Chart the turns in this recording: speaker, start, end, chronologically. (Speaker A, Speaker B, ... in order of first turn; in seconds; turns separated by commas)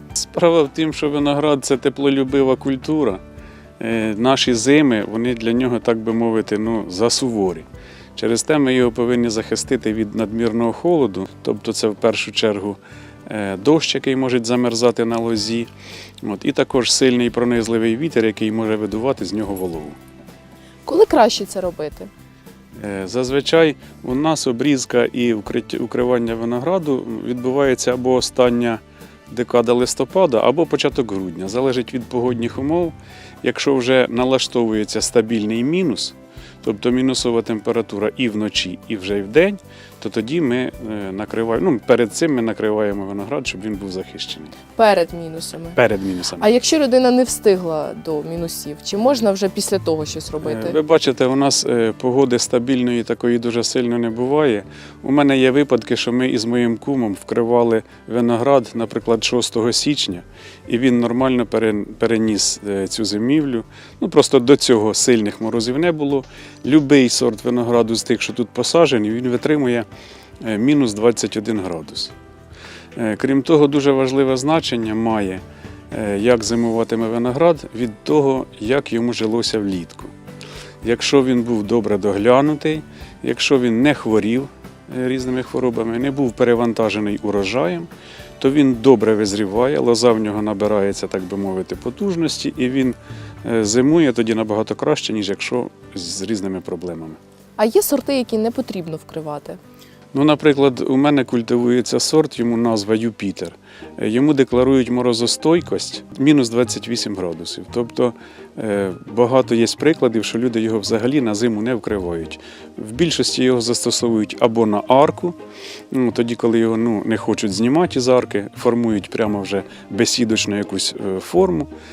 Speaker A: 0.1-3.2, Speaker A: 3.8-15.7, Speaker A: 16.2-20.0, Speaker B: 20.9-22.1, Speaker A: 22.8-44.5, Speaker B: 44.7-45.8, Speaker A: 45.8-46.5, Speaker B: 46.4-50.8, Speaker A: 50.4-69.8, Speaker A: 70.4-72.1, Speaker A: 73.0-80.1, Speaker A: 80.8-87.9, Speaker A: 88.4-97.2, Speaker B: 97.6-99.6, Speaker A: 100.1-115.3, Speaker A: 115.9-121.7